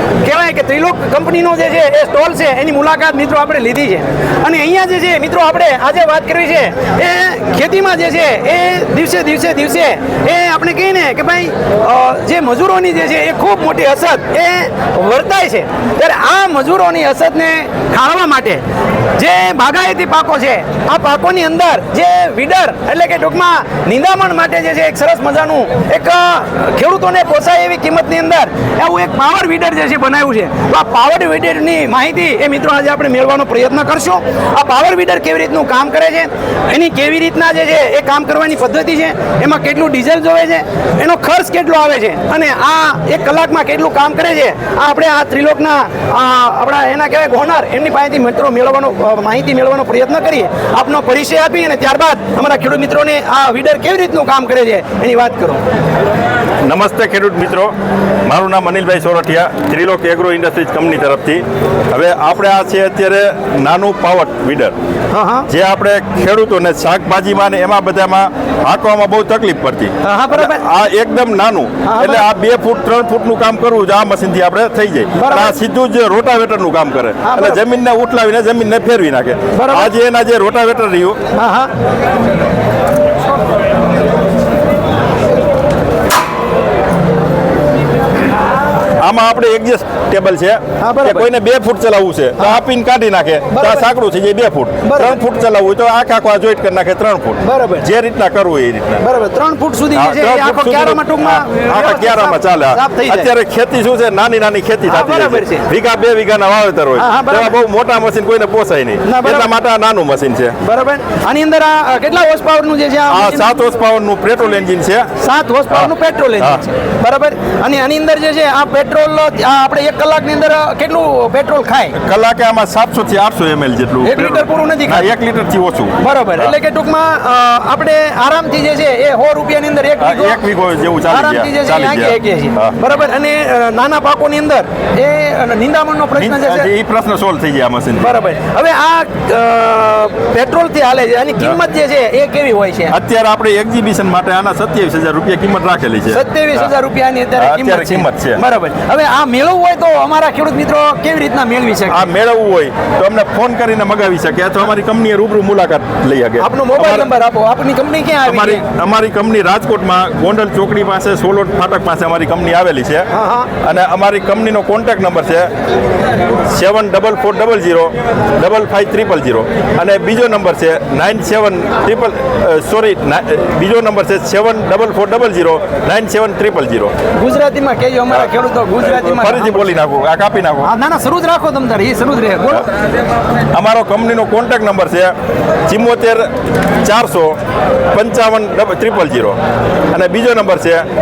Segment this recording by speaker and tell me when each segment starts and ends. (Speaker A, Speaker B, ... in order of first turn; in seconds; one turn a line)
Speaker A: 0.2-18.6
Speaker A: 19.2-55.6
Speaker B: 56.7-57.7
Speaker B: 58.2-64.7
Speaker A: 65.1-65.5
Speaker B: 65.5-81.2
Speaker A: 70.0-70.6
Speaker A: 71.8-72.2
Speaker A: 75.2-75.5
Speaker A: 77.2-77.6
Speaker A: 79.5-79.9
Speaker A: 81.3-81.7
Speaker B: 89.0-99.0
Speaker A: 90.8-91.3
Speaker A: 93.5-93.9
Speaker A: 94.8-95.2
Speaker A: 97.4-97.8
Speaker A: 99.0-103.3
Speaker B: 99.9-110.6
Speaker A: 104.9-105.7
Speaker A: 107.0-107.6
Speaker A: 109.0-109.5
Speaker A: 110.6-113.5
Speaker B: 113.1-115.1
Speaker A: 115.2-122.0
Speaker B: 115.7-116.6
Speaker B: 122.0-126.5
Speaker A: 124.0-125.1
Speaker A: 126.0-130.4
Speaker B: 130.0-132.8
Speaker A: 131.1-136.7
Speaker B: 136.2-138.2
Speaker A: 138.0-142.9
Speaker B: 142.9-146.7
Speaker A: 146.1-152.0
Speaker B: 147.4-148.4
Speaker B: 151.9-157.1
Speaker A: 156.4-158.6
Speaker B: 158.2-163.1
Speaker A: 163.1-163.5
Speaker B: 163.6-165.5
Speaker B: 166.5-176.9
Speaker A: 177.2-179.6
Speaker B: 178.8-180.7
Speaker A: 180.6-182.7
Speaker B: 183.5-185.1
Speaker B: 185.7-186.3
Speaker B: 186.8-187.3
Speaker B: 187.9-189.4
Speaker B: 189.9-190.8